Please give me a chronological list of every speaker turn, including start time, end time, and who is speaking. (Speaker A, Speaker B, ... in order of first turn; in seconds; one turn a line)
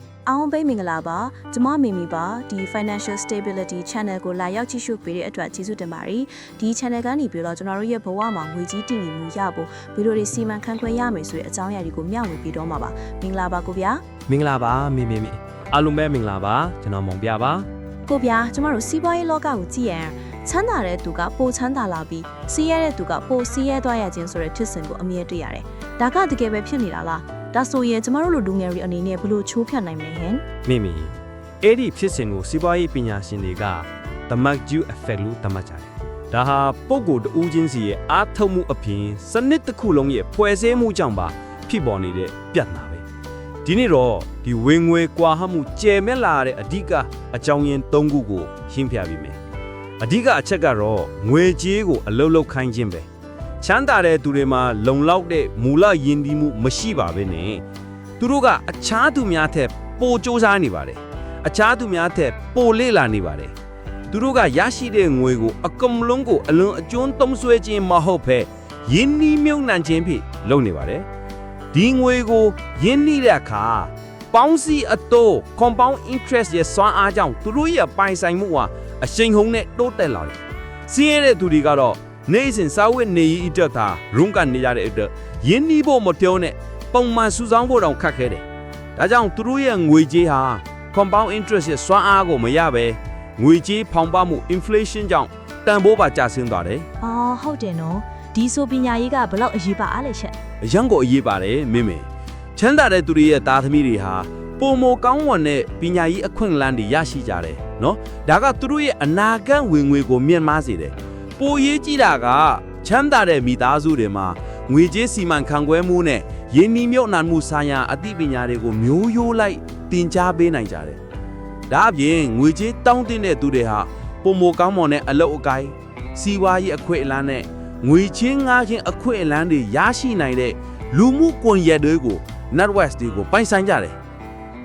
Speaker A: 0.2-14.0
Speaker B: 14.3-17.7
Speaker A: 18.1-30.4
Speaker B: 30.6-43.0
Speaker B: 43.6-49.4
Speaker B: 50.0-53.0
Speaker B: 53.6-57.6
Speaker B: 58.2-63.5
Speaker B: 64.1-71.0
Speaker B: 71.7-88.4
Speaker B: 89.0-96.9
Speaker A: 97.0-100.3
Speaker B: 100.6-121.0
Speaker B: 121.7-133.9